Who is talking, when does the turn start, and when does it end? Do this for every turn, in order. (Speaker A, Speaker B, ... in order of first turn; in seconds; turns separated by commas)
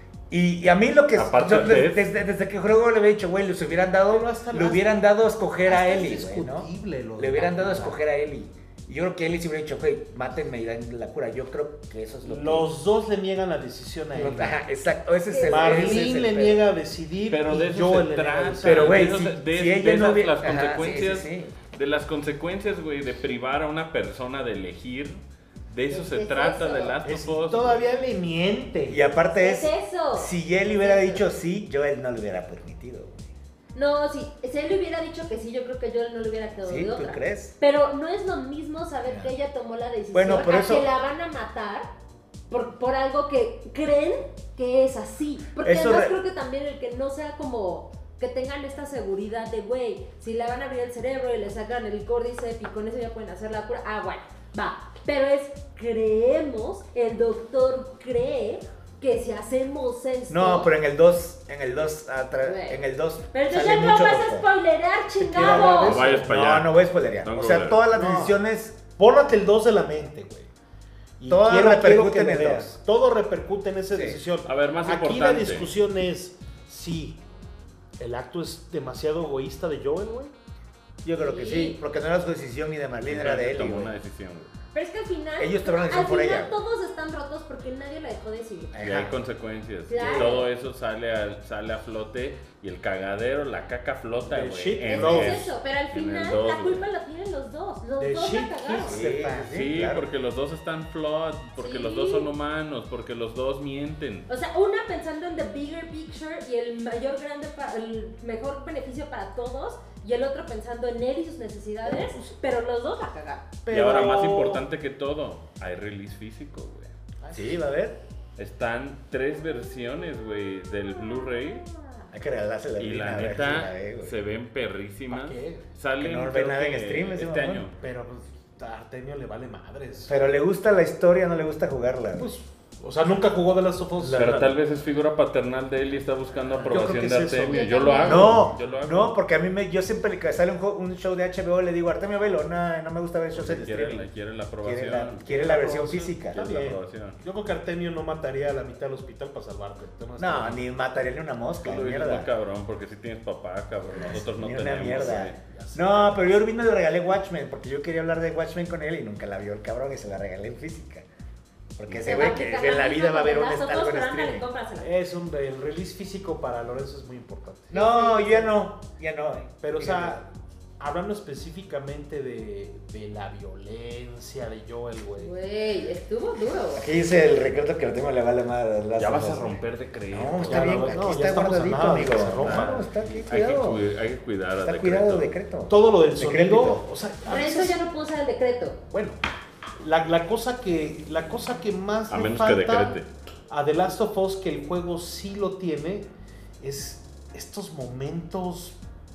Speaker A: 0.3-12.7, Speaker B: 1.1-2.0, Speaker C: 4.1-4.9, Speaker C: 5.7-8.0, Speaker C: 12.2-14.6, Speaker A: 14.1-16.6, Speaker D: 15.3-16.3, Speaker C: 15.4-19.1, Speaker B: 17.3-27.9, Speaker A: 18.6-21.6, Speaker D: 25.9-26.9, Speaker C: 27.0-29.0, Speaker A: 28.9-33.2, Speaker D: 29.3-31.2, Speaker D: 33.7-41.9, Speaker A: 36.6-37.5, Speaker A: 39.1-39.3, Speaker A: 40.1-40.9, Speaker D: 42.5-60.7, Speaker A: 45.6-46.1, Speaker A: 60.3-64.5, Speaker D: 62.4-62.8, Speaker D: 63.3-66.0, Speaker C: 65.2-66.3, Speaker B: 65.4-67.8, Speaker A: 66.1-68.8, Speaker C: 67.9-68.4, Speaker C: 69.0-70.5, Speaker C: 71.2-77.2, Speaker A: 71.3-72.7, Speaker A: 73.9-74.2, Speaker B: 74.4-75.7, Speaker C: 78.0-80.3, Speaker A: 81.0-83.9, Speaker D: 81.1-81.8, Speaker B: 83.1-84.5, Speaker D: 84.7-88.8, Speaker A: 85.4-86.6, Speaker A: 88.7-89.2, Speaker B: 88.8-96.8, Speaker D: 89.9-90.5, Speaker A: 90.0-90.3, Speaker C: 94.3-95.4, Speaker D: 94.9-99.0, Speaker C: 98.0-99.5, Speaker A: 98.8-100.1, Speaker B: 99.4-104.3, Speaker D: 101.6-102.3, Speaker D: 104.3-113.5, Speaker C: 111.8-112.3, Speaker C: 113.6-114.6, Speaker B: 113.7-116.9, Speaker C: 117.2-117.5, Speaker A: 117.3-118.0, Speaker B: 118.4-121.6, Speaker D: 120.9-122.1, Speaker A: 122.1-124.2, Speaker B: 122.8-127.7, Speaker C: 125.1-125.7, Speaker A: 126.0-127.7, Speaker C: 127.8-130.1, Speaker A: 130.1-132.3, Speaker C: 132.2-134.5, Speaker A: 134.0-134.5, Speaker B: 134.1-139.1, Speaker C: 136.6-138.4, Speaker D: 137.5-138.3, Speaker A: 138.0-144.1, Speaker B: 143.3-145.3, Speaker A: 144.6-146.4, Speaker C: 145.2-150.6, Speaker B: 146.3-147.2, Speaker A: 150.2-152.3, Speaker B: 151.6-155.4, Speaker A: 153.9-161.1, Speaker C: 155.4-156.2, Speaker A: 161.8-164.4, Speaker B: 161.9-162.3, Speaker D: 162.0-164.9, Speaker C: 164.8-167.7, Speaker D: 167.7-168.5, Speaker A: 167.7-170.2, Speaker C: 169.6-175.3, Speaker D: 175.2-176.9, Speaker A: 176.7-183.8, Speaker B: 179.0-181.1, Speaker C: 180.5-182.9, Speaker B: 181.8-185.3, Speaker A: 184.6-186.8, Speaker C: 185.7-187.8, Speaker D: 187.2-188.8, Speaker C: 188.9-189.2, Speaker C: 189.8-196.1, Speaker B: 192.1-193.1, Speaker C: 196.6-198.8